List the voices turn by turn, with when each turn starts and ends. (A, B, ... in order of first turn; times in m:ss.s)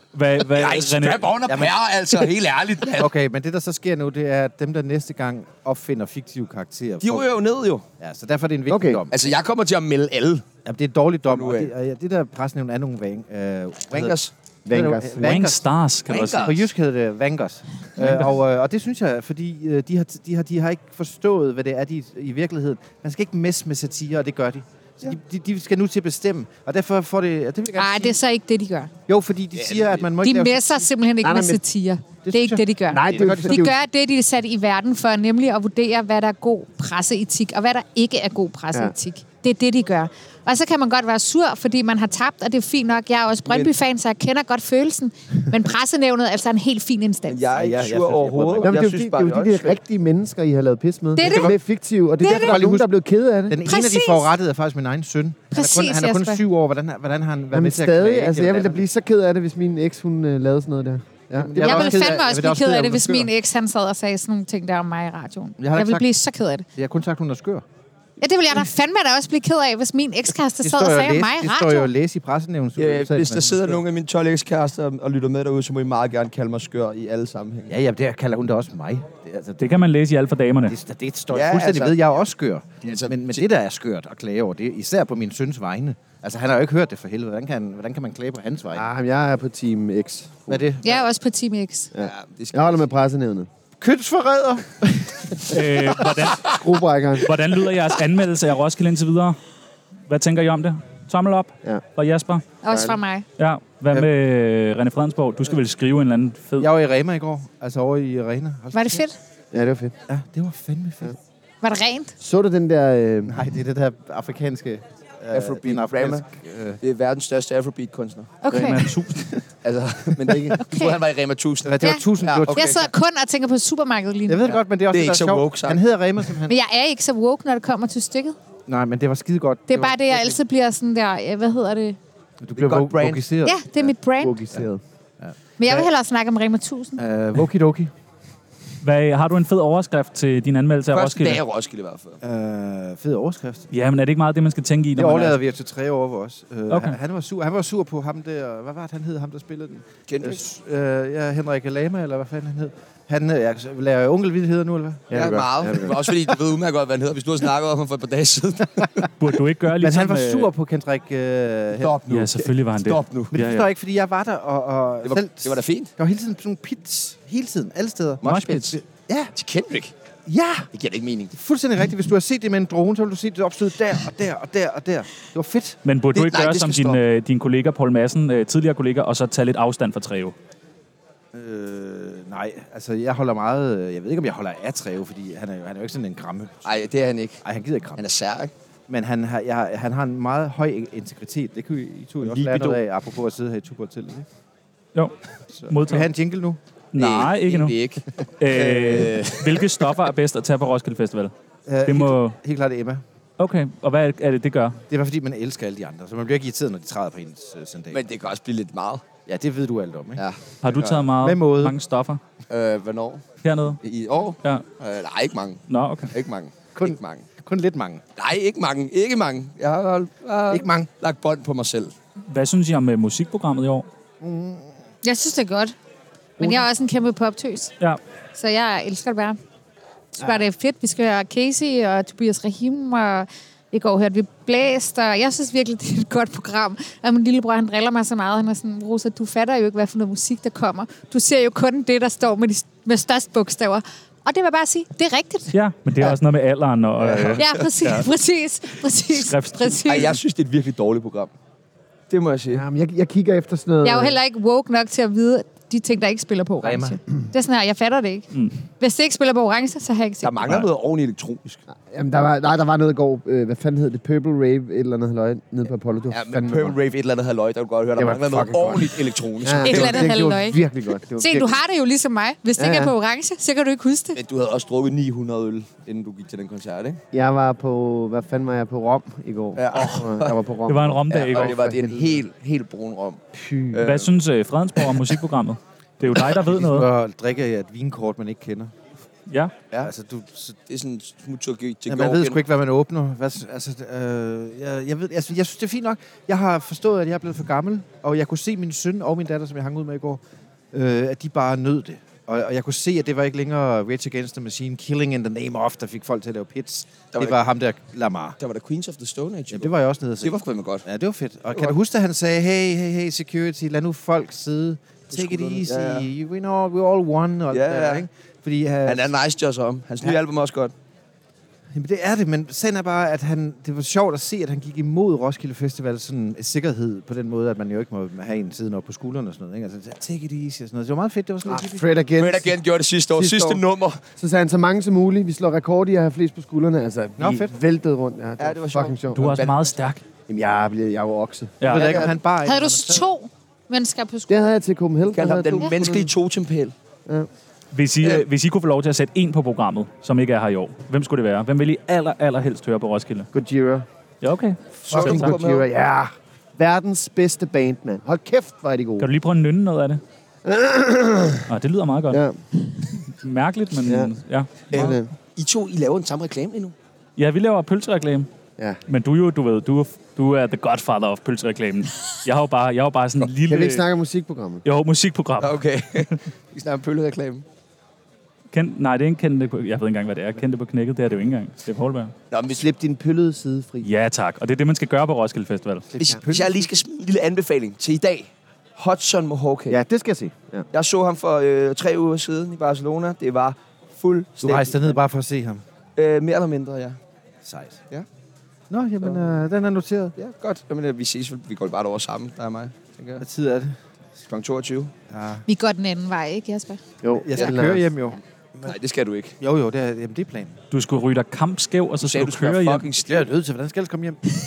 0:00.1-0:01.3 A
0:00.5-0:03.1 B
0:01.5-0:01.8 C
0:02.9-0:07.3 C
0:07.0-0:07.8 B
0:08.0-0:09.1 C
0:08.7-0:09.0 D
0:09.1-0:10.4 B
0:10.6-0:14.2 C
0:11.3-0:11.7 B
0:13.9-0:14.3 B
0:14.7-0:15.4 D
0:14.7-0:28.2 C
0:15.2-0:16.6 A
0:16.1-0:16.6 B
0:27.8-0:28.9 E
0:29.1-0:30.9 C
0:29.5-0:30.1 B
0:30.2-0:47.4 E
0:31.2-0:31.6 D
0:32.3-0:33.7 C
0:32.9-0:33.8 D
0:43.5-0:43.7 B
0:47.3-0:49.8 B
0:47.5-0:48.8 C
0:48.6-0:53.7 D
0:51.2-0:51.5 E
0:51.2-0:51.5 C
0:52.2-0:52.6 E
0:52.2-0:52.9 C
0:53.5-0:58.8 C
0:53.7-0:54.3 E
0:55.5-0:56.4 E
0:57.5-1:02.2 D
1:01.4-1:03.3 C
1:01.6-1:06.7 E
1:05.6-1:06.1 C
1:06.8-1:07.6 C
1:08.2-1:11.9 E
1:10.6-1:13.8 C
1:12.8-1:17.7 B
1:17.7-1:19.8 C
1:19.6-1:20.8 A
1:20.7-1:28.8 C
1:21.3-1:22.1 B
1:22.8-1:23.5 B
1:28.7-1:30.7 D
1:30.5-1:31.1 C
1:30.8-1:31.9 E
1:31.9-1:33.5 D
1:32.0-1:32.9 B
1:33.8-1:36.0 C
1:35.5-1:36.6 A
1:36.4-1:37.4 D
1:37.2-1:39.4 A
1:40.1-1:42.4 A
1:42.6-1:43.3 E
1:42.7-1:43.0 D
1:43.4-1:46.7 A
1:46.6-1:49.1 C
1:48.7-1:49.2 E
1:49.5-1:49.9 D
1:50.1-1:51.2 C
1:51.6-1:52.2 E
1:52.2-1:53.4 D
1:53.3-1:56.8 C
1:55.3-1:58.4 B
1:58.4-1:58.9 E
1:58.5-1:59.3 A
1:59.6-2:02.8 B
2:00.2-2:00.5 D
2:00.6-2:01.0 E
2:01.6-2:02.9 C
2:01.8-2:04.6 E
2:04.3-2:06.5 C
2:04.4-2:05.8 B
2:06.5-2:08.4 E
2:08.7-2:10.4 C
2:09.7-2:12.0 E
2:12.4-2:13.9 C
2:12.6-2:13.3 B
2:13.4-2:14.4 E
2:14.2-2:14.8 D
2:15.2-2:15.9 C
2:15.6-2:17.0 E
2:17.0-2:17.9 C
2:18.8-2:21.4 A
2:20.9-2:22.2 B
2:22.2-2:23.7 C
2:23.7-2:25.4 A
2:25.0-2:35.2 C
2:26.7-2:27.0 A
2:30.1-2:30.4 B
2:35.1-2:36.0 D
2:35.1-2:39.1 B
2:39.2-2:40.5 A
2:39.8-2:42.0 C
2:41.8-2:43.4 B
2:42.1-2:43.7 A
2:43.4-2:49.3 C
2:45.0-2:45.9 B
2:48.2-2:48.8 B
2:48.3-2:48.8 A
2:49.4-2:49.9 B
2:50.3-2:50.7 C
2:50.7-2:51.3 B
2:51.3-2:55.8 C
2:55.8-3:00.4 A
2:56.1-2:57.0 B
3:01.3-3:06.6 C
3:06.6-3:07.4 B
3:07.4-3:08.0 C
3:08.0-3:08.5 B
3:08.9-3:14.3 C
3:12.2-3:12.8 B
3:15.5-3:16.6 C
3:15.7-3:16.1 A
3:16.9-3:17.8 A
3:17.0-3:20.0 B
3:18.4-3:21.3 A
3:21.7-3:23.0 C
3:21.9-3:22.4 A
3:23.4-3:24.8 A
3:24.9-3:28.0 C
3:27.9-3:29.0 B
3:29.3-3:30.2 C
3:30.2-3:31.0 B
3:30.6-3:32.2 A
3:31.1-3:31.8 C
3:32.5-3:37.2 B
3:33.4-3:33.8 A
3:35.7-3:36.1 A
3:36.8-3:38.0 C
3:38.2-3:41.9 B
3:40.5-3:40.9 C
3:42.3-3:43.9 A
3:44.2-3:44.7 C
3:45.0-3:45.8 E
3:46.4-3:46.6 A
3:46.4-3:47.7 E
3:48.4-3:49.4 E
3:50.2-4:05.5 E
4:05.5-4:08.1 A
4:07.0-4:07.6 B
4:07.4-4:10.2 E
4:09.1-4:10.1 A
4:09.9-4:11.3 B
4:12.1-4:12.6 B
4:12.5-4:14.2 D
4:13.8-4:20.3 E
4:16.6-4:17.0 C
4:20.2-4:21.6 B
4:21.9-4:26.8 D
4:26.1-4:30.1 B
4:28.0-4:31.6 D
4:29.6-4:30.6 E
4:31.2-4:34.2 E
4:32.6-4:32.9 D
4:34.2-4:37.0 B
4:37.1-4:42.2 D
4:39.6-4:40.4 B
4:39.7-4:40.1 A
4:40.7-4:41.6 A
4:41.1-4:44.1 B
4:43.3-4:43.8 D
4:43.8-4:46.9 A
4:44.8-4:45.1 B
4:46.2-4:48.7 C
4:49.3-4:49.6 A
4:49.8-4:50.6 C
4:50.7-4:52.4 B
4:51.9-5:00.2 C
5:00.7-5:08.4 C
5:07.1-5:07.4 B
5:08.4-5:10.9 B
5:09.5-5:19.1 C
5:15.1-5:16.1 B
5:17.5-5:18.1 B
5:18.8-5:20.7 B
5:21.7-5:31.8 C
5:31.4-5:32.6 D
5:32.2-5:34.0 B
5:33.2-5:33.6 D
5:34.2-5:39.5 D
5:37.2-5:37.5 C
5:38.4-5:39.5 B
5:39.1-5:40.0 A
5:40.3-5:42.0 D
5:41.6-5:42.0 A
5:41.6-5:43.0 C
5:41.7-5:42.1 B
5:42.4-5:44.5 E
5:44.3-5:46.1 D
5:45.1-5:46.7 B
5:47.7-5:53.3 A
5:53.3-5:53.9 D
5:54.2-5:55.4 A
5:54.8-5:55.7 B
5:54.9-5:59.1 D
5:59.0-6:00.0 A
6:00.4-6:01.5 D
6:01.5-6:02.2 A
6:02.1-6:02.4 D
6:03.2-6:05.0 A
6:03.8-6:04.2 D
6:04.7-6:05.1 D
6:04.7-6:06.7 B
6:07.2-6:08.3 A
6:08.9-6:13.8 A
6:13.4-6:14.6 D
6:14.6-6:15.6 A
6:15.4-6:17.4 B
6:18.5-6:22.1 A
6:22.3-6:22.7 B
6:22.5-6:23.9 D
6:23.8-6:25.9 A
6:25.9-6:26.8 C
6:26.0-6:29.8 B
6:29.7-6:30.7 D
6:30.7-6:35.0 B
6:34.4-6:35.6 C
6:36.0-6:37.0 B
6:37.4-6:37.8 C
6:38.7-6:40.2 C
6:39.0-6:39.3 B
6:40.2-6:43.2 B
6:43.2-6:43.8 C
6:44.2-6:44.9 B
6:45.1-6:45.4 C
6:45.5-6:46.8 E
6:47.0-6:47.9 D
6:47.2-6:48.8 C
6:48.6-6:49.4 B
6:49.4-6:50.6 C
6:50.7-6:52.9 A
6:52.0-6:53.3 B
6:53.0-6:54.2 C